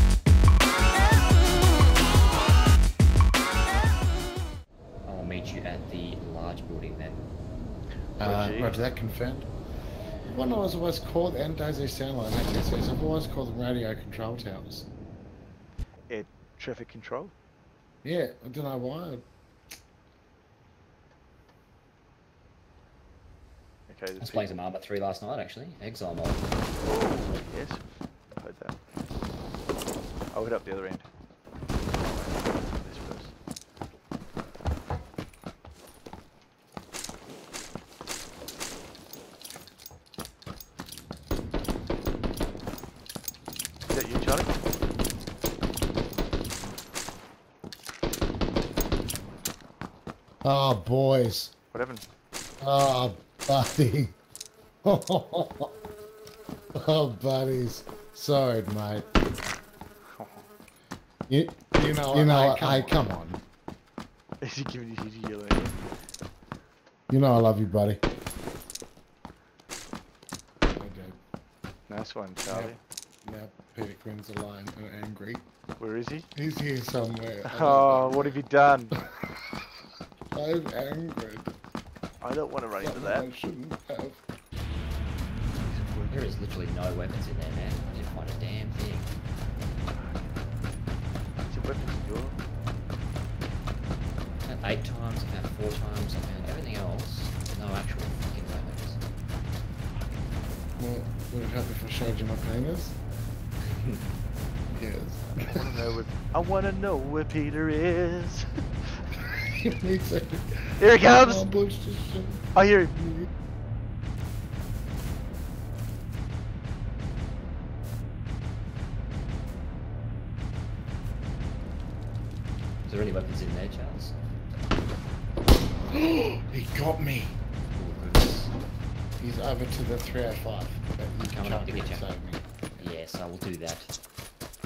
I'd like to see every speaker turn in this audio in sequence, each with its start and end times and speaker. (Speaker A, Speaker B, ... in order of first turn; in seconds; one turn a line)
Speaker A: 5.0-7.2
Speaker B: 8.2-8.8
Speaker C: 8.2-9.5
Speaker C: 10.3-14.9
Speaker B: 16.1-17.3
Speaker C: 18.0-19.2
Speaker B: 23.9-24.5
Speaker A: 24.2-26.4
Speaker B: 26.8-27.8
Speaker B: 28.4-28.8
Speaker B: 30.3-31.0
Speaker B: 32.1-33.3
Speaker B: 43.9-44.6
Speaker C: 50.4-51.5
Speaker B: 51.7-52.0
Speaker C: 52.6-54.1
Speaker C: 54.8-55.7
Speaker C: 56.7-59.1
Speaker B: 60.1-60.5
Speaker C: 61.3-63.4
Speaker B: 61.8-63.0
Speaker B: 64.4-65.8
Speaker C: 67.1-68.0
Speaker C: 70.7-71.2
Speaker B: 71.9-72.8
Speaker C: 72.5-75.4
Speaker B: 75.8-76.3
Speaker C: 76.3-78.4
Speaker B: 77.5-79.0
Speaker C: 80.3-81.5
Speaker B: 82.2-83.3
Speaker C: 82.7-84.2
Speaker B: 85.6-86.2
Speaker A: 86.1-89.1
Speaker B: 89.9-90.5
Speaker B: 91.4-92.4
Speaker A: 94.4-99.0
Speaker C: 100.8-103.0
Speaker A: 103.7-104.0
Speaker C: 104.7-105.8
Speaker B: 105.3-108.5
Speaker C: 109.4-113.2
Speaker B: 110.8-111.4
Speaker B: 112.5-113.0
Speaker A: 122.8-124.1
Speaker C: 125.9-127.4
Speaker A: 127.8-128.5
Speaker C: 129.2-132.9
Speaker A: 131.3-132.1
Speaker A: 132.8-133.9